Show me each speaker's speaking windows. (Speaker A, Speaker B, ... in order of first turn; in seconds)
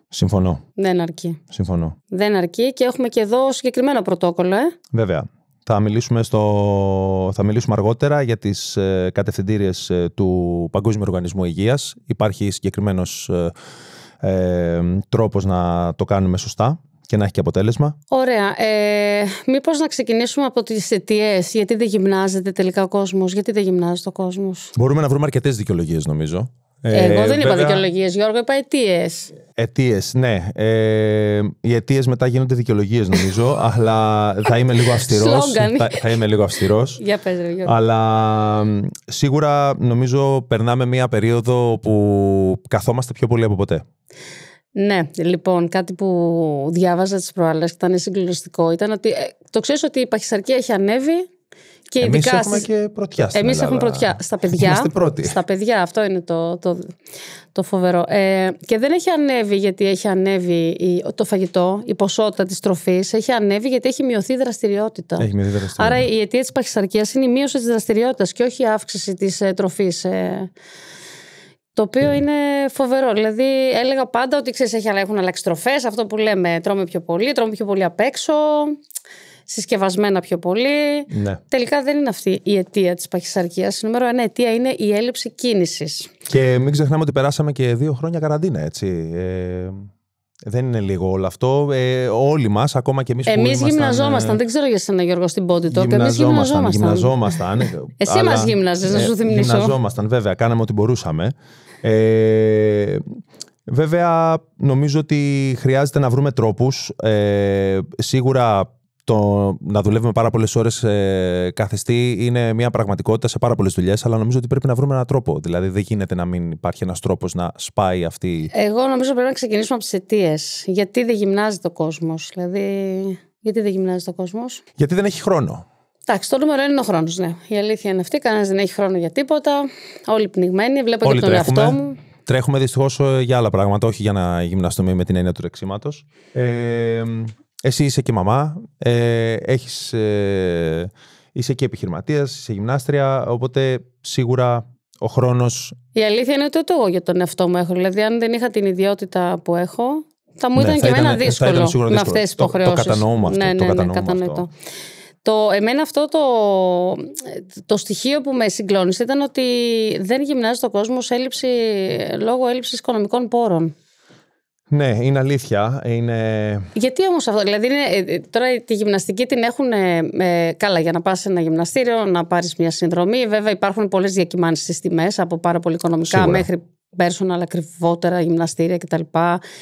Speaker A: 0.1-0.6, 1.5-2.0, 4.9-13.5, 14.2-17.9, 24.8-27.8, 29.6-37.0, 37.6-43.8, 52.0-55.4, 65.2-66.0, 81.1-81.4, 86.3-89.8, 90.5-94.4, 95.7-103.0, 103.7-118.5, 124.8-125.6, 131.0-145.8, 150.6-154.4, 164.7-166.7, 176.1-176.5
Speaker B: 0.8-1.4, 2.1-4.7, 18.1-24.7, 26.9-29.3, 35.0-36.0, 37.0-37.7, 44.8-51.3, 51.9-52.7, 53.3-56.9, 57.5-70.5, 71.7-78.8, 79.5-86.1, 93.3-97.1, 98.0-99.7, 118.5-124.6, 126.1-132.0, 145.9-154.5, 155.2-163.7, 166.7-179.4